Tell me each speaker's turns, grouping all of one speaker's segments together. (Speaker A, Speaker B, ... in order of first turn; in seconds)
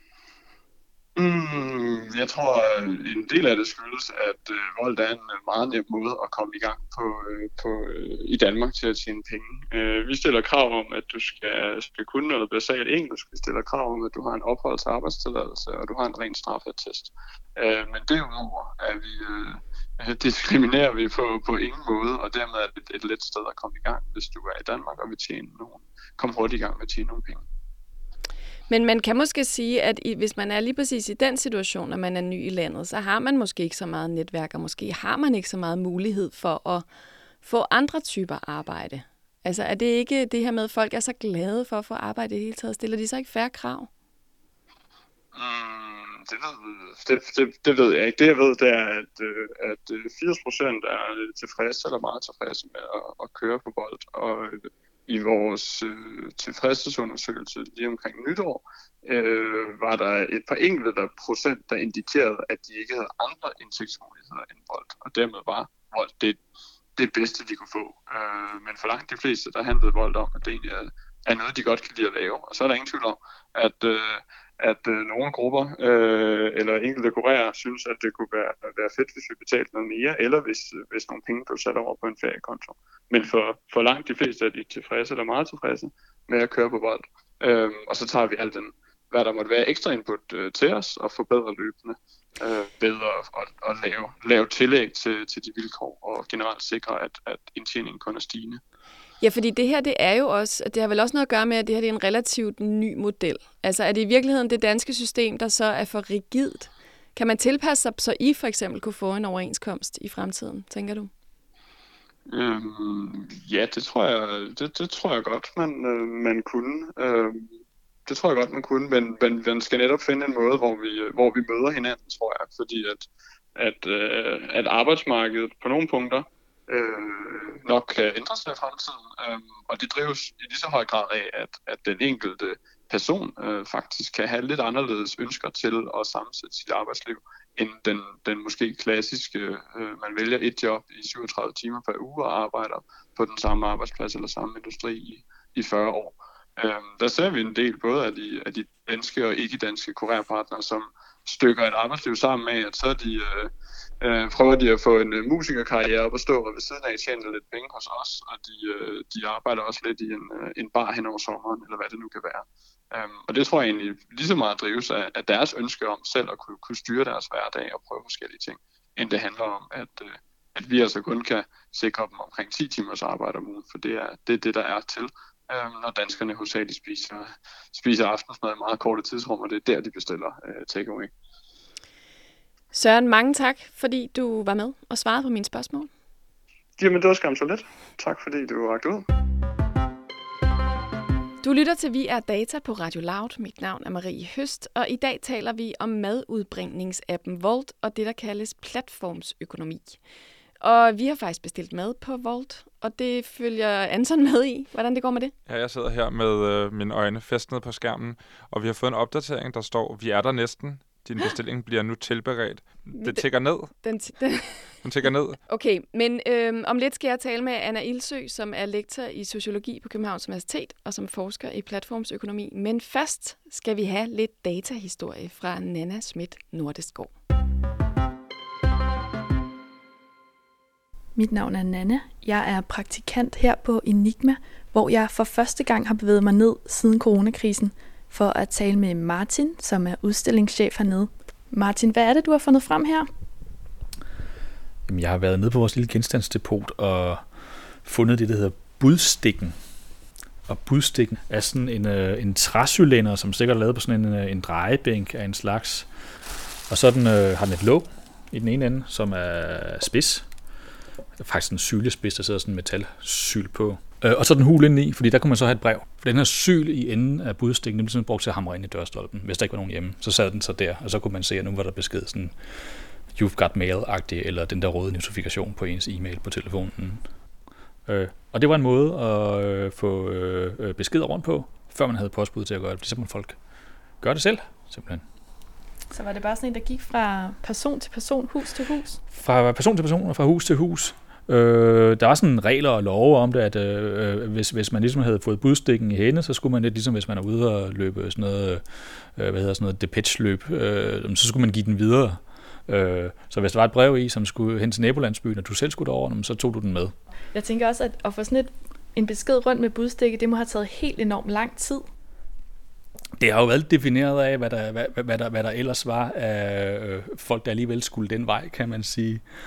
Speaker A: 1.2-27.4, 45.3-66.4, 67.0-98.6, 112.3-117.5, 118.1-181.1, 186.8-189.1
Speaker B: 28.7-36.9, 37.4-43.9, 99.2-111.1, 182.7-185.9, 191.4-200.0, 200.6-205.3, 212.9-214.8, 215.5-227.2
Speaker C: 205.5-213.7, 214.8-215.4
Speaker D: 231.2-243.1, 285.9-289.0, 307.3-311.9
Speaker E: 244.9-249.6, 250.5-255.9, 256.7-260.3, 261.2-277.0, 277.9-283.4, 284.0-285.1, 289.1-307.0, 313.2-319.2